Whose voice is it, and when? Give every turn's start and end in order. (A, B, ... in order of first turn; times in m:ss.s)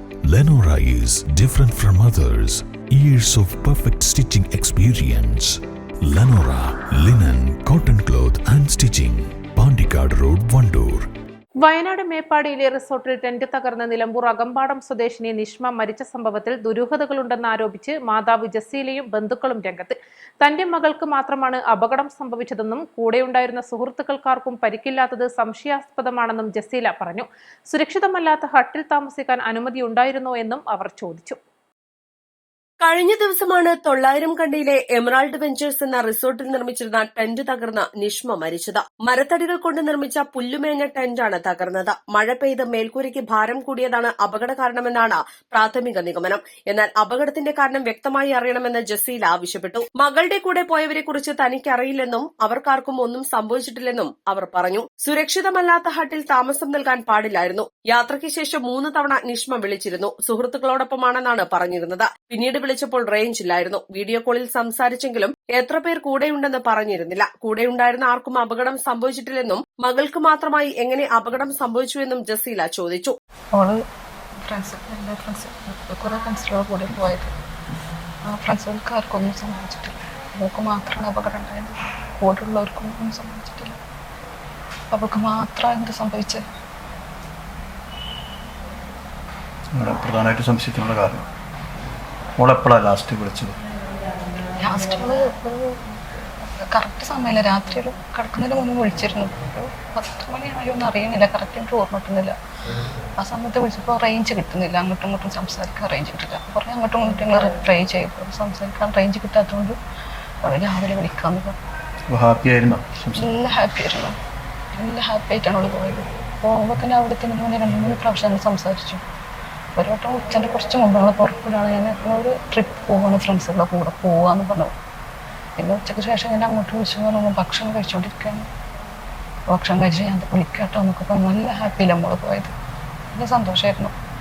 0:00.2-0:11.1 A
0:11.6-0:31.4 B
0:32.8-1:13.2 C
1:14.5-1:17.3 D
1:18.3-1:23.8 D
1:24.9-1:26.4 D
1:29.8-1:31.2 E
1:32.4-1:33.6 E
1:34.6-1:35.8 D
1:36.6-1:42.4 D
1:43.2-1:49.8 D
1:50.4-1:51.6 D
1:52.1-1:53.3 E
1:53.2-1:54.2 D
1:54.8-1:59.0 D
1:59.8-2:04.7 D
2:05.6-2:08.5 D
2:09.5-2:12.5 D
2:13.1-2:13.9 D